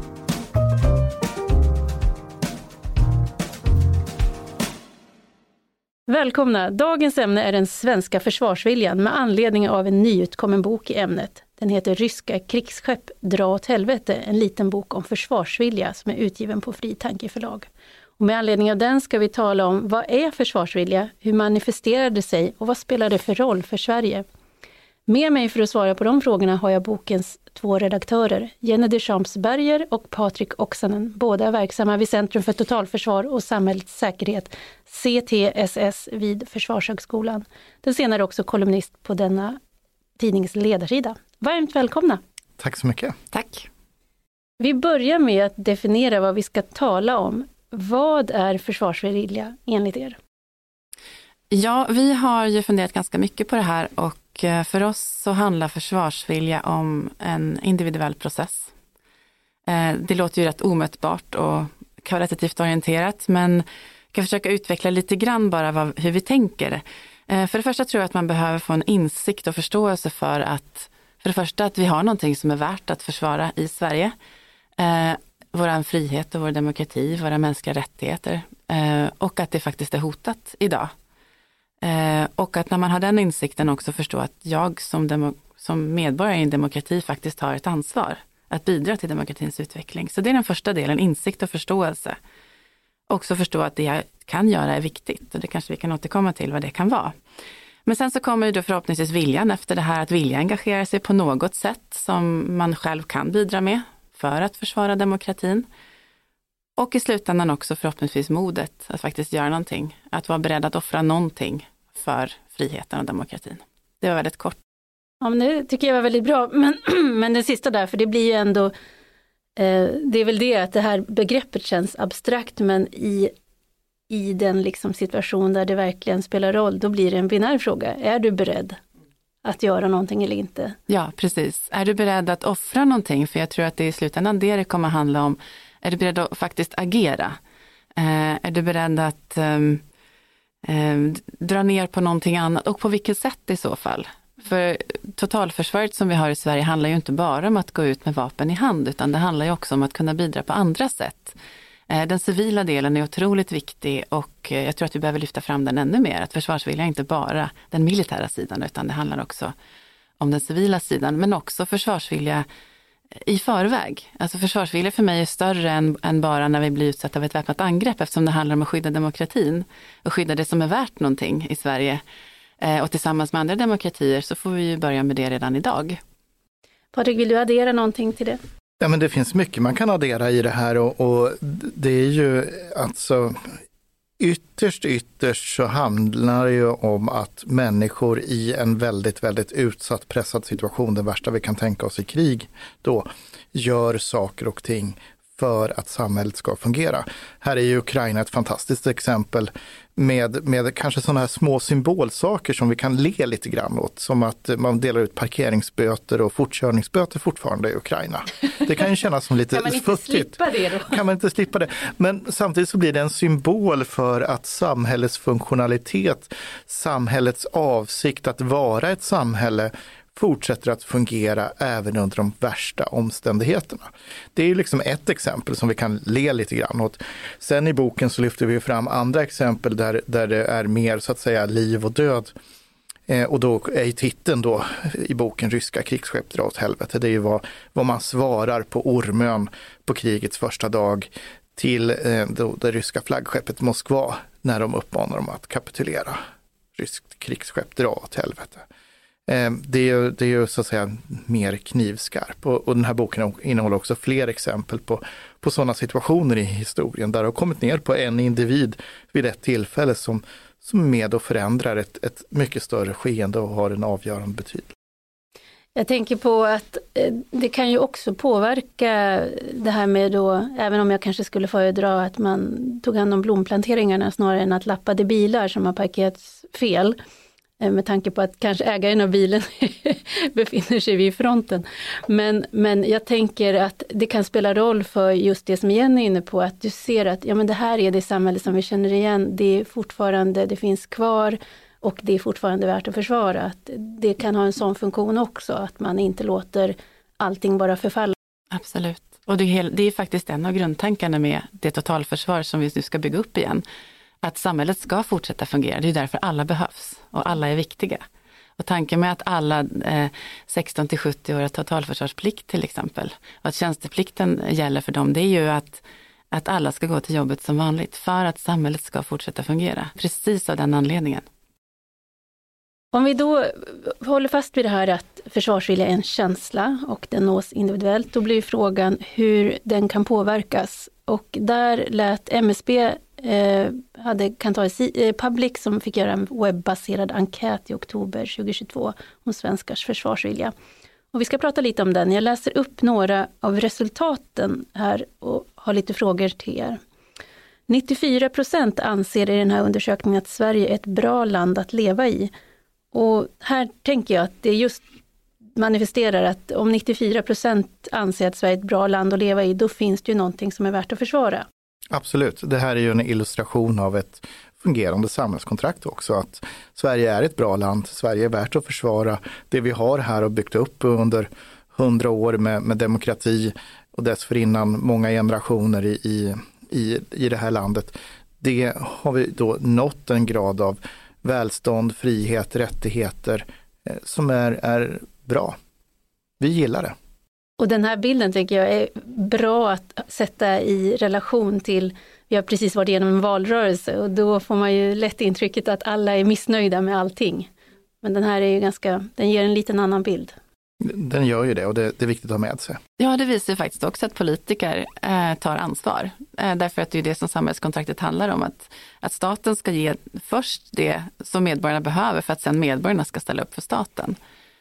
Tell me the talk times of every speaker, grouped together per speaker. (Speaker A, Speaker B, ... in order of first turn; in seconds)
Speaker A: 6.1-17.7, 18.2-24.2, 25.1-39.6, 40.2-42.2, 44.6-50.2, 115.2-118.7, 119.6-123.3, 124.1-128.8, 129.4-130.7, 176.9-178.4, 209.5-210.9, 265.8-276.9, 277.6-298.1, 322.9-340.5, 341.1-346.8, 347.7-352.3, 352.9-354.8, 355.6-361.4, 387.6-397.5, 398.0-400.3
Speaker B: 42.6-43.1, 178.8-183.5, 184.2-232.3, 233.1-246.2, 246.7-248.7, 249.3-264.7, 361.9-385.5, 386.4-386.9, 400.8-402.8
Speaker C: 43.3-43.7, 51.5-58.7, 59.7-74.1, 74.8-80.9, 81.8-92.2, 93.1-97.1, 97.8-105.7, 106.8-114.6, 130.9-137.4, 137.9-139.8, 140.6-151.3, 151.9-159.5, 160.2-162.4, 163.2-172.0, 172.6-176.0, 298.5-303.6, 304.2-308.0, 308.6-321.2, 403.0-414.2